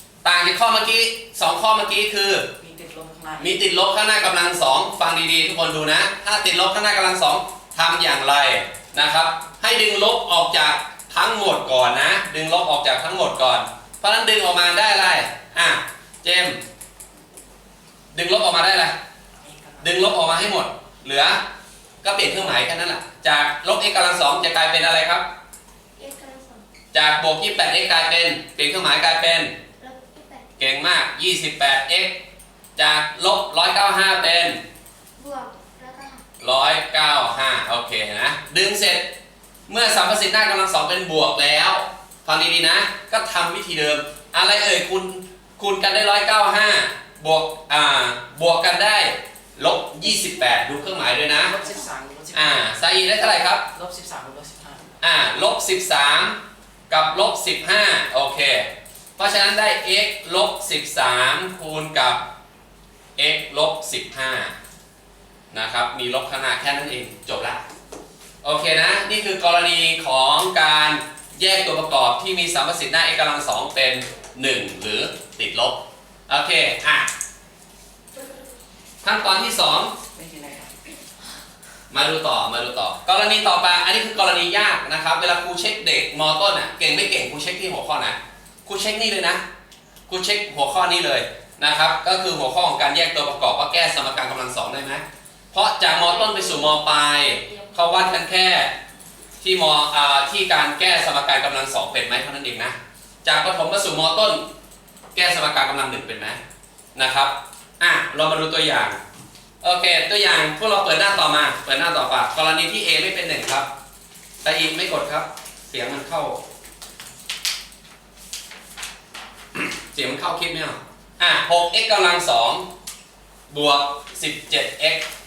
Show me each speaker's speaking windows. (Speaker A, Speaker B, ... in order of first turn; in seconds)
Speaker A: 0.2-2.5, 3.4-16.6, 18.1-18.9, 19.8-21.4, 22.0-25.2, 26.9-29.5, 30.6-32.2, 32.8-34.6, 36.4-39.1, 39.7-51.5, 52.3-53.7, 55.0-56.4, 56.9-62.2, 63.1-64.5, 65.5-67.6, 68.4-77.1, 79.0-80.0, 81.9-89.4, 90.1-98.7, 99.4-104.4, 105.1-106.4, 107.0-109.0, 109.6-113.7, 114.4-116.4, 119.5-122.7, 123.5-125.0
Speaker B: 2.6-3.5, 19.4-20.4, 51.4-52.6, 53.7-54.9, 80.1-80.7
Speaker C: 26.0-26.6, 29.8-30.5, 35.2-36.2, 50.2-50.5, 96.0-96.8